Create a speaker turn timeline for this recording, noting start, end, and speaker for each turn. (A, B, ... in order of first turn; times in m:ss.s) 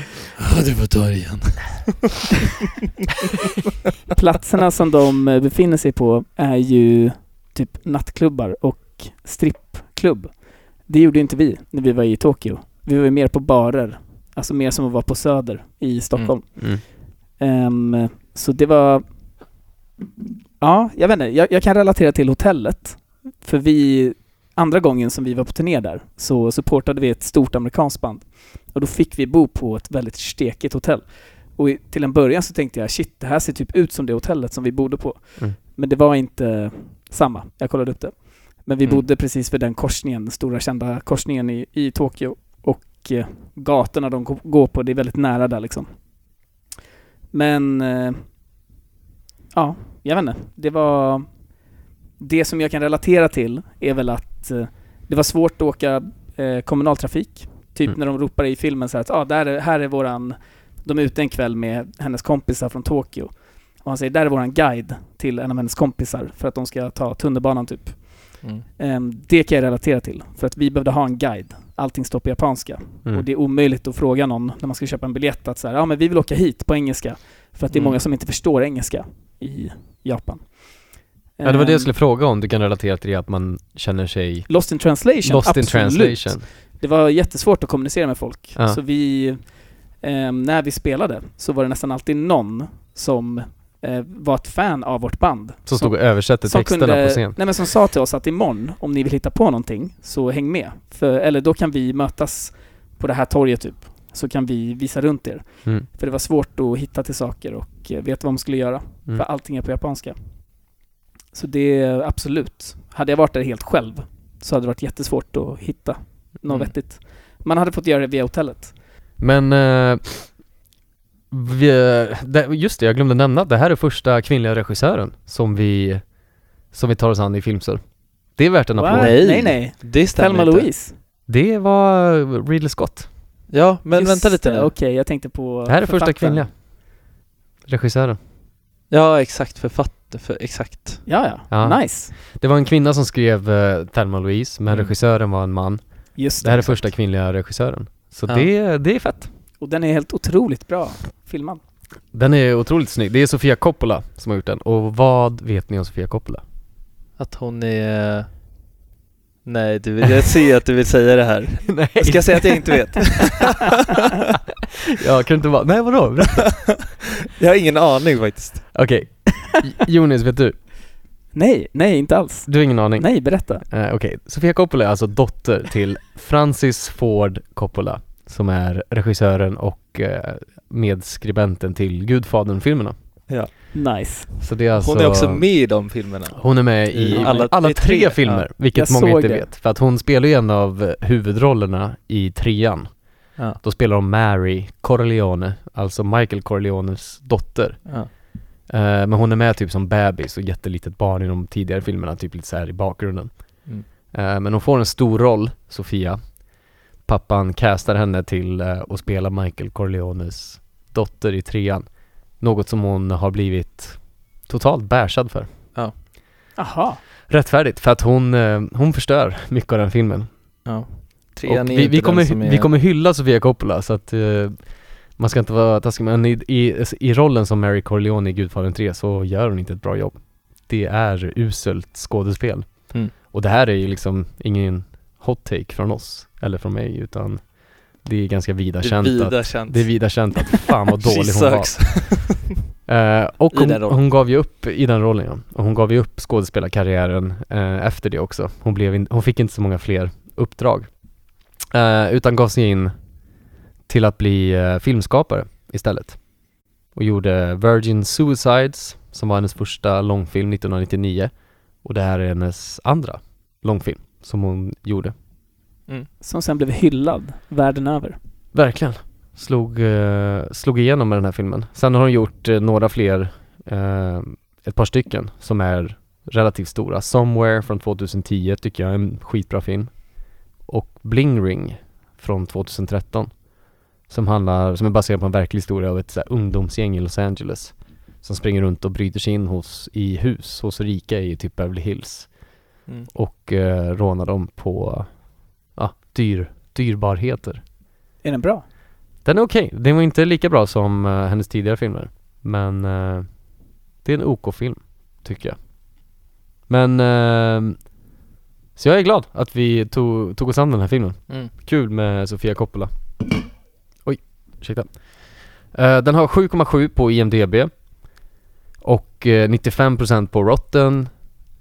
0:00.4-0:02.0 A
0:04.1-0:19.0 B
0:16.4-0:16.8 C
0:20.6-0:45.9 B
0:47.3-0:48.2 B
0:49.5-0:51.3 B
0:52.2-1:21.9 B
1:17.7-1:18.0 A
1:21.4-1:26.5 C
1:24.5-1:50.7 B
1:35.7-1:37.4 C
1:51.3-1:58.8 B
1:56.5-1:56.7 A
1:59.2-2:00.4 C
2:01.3-2:06.1 C
2:06.7-2:09.2 C
2:08.8-2:11.0 B
2:08.9-2:10.7 A
2:11.3-2:13.1 C
2:13.5-2:14.7 A
2:13.9-2:16.5 B
2:15.7-2:16.5 C
2:17.7-2:18.2 C
2:18.9-2:21.1 A
2:21.1-2:22.1 B
2:21.5-2:29.3 C
2:24.7-2:25.0 A
2:26.2-2:26.9 B
2:29.6-2:31.6 B
2:32.1-2:36.4 C
2:37.2-2:38.3 A
2:39.4-2:43.7 A
2:41.7-2:43.1 C
2:45.0-2:46.8 C
2:47.3-2:48.8 A
2:48.7-2:50.6 C
2:51.3-2:53.6 B
2:52.5-3:03.0 C
3:03.7-3:04.3 B
3:04.4-3:35.5 C
3:04.7-3:08.4 A
3:07.1-3:09.5 B
3:36.6-3:37.0 B
3:37.3-3:40.3 C
3:40.6-3:42.7 A
3:41.4-4:11.0 C
3:58.8-4:02.5 A
4:03.5-4:04.0 A
4:11.7-4:12.9 C
4:13.9-4:16.3 C
4:16.9-4:25.1 C
4:26.2-4:28.2 B
4:28.5-4:43.4 C
4:44.0-4:52.6 C
4:53.1-4:57.6 C
4:58.2-4:58.6 B
4:59.2-5:07.9 C
5:08.8-5:13.2 C
5:14.0-5:18.3 C
5:18.8-5:21.1 C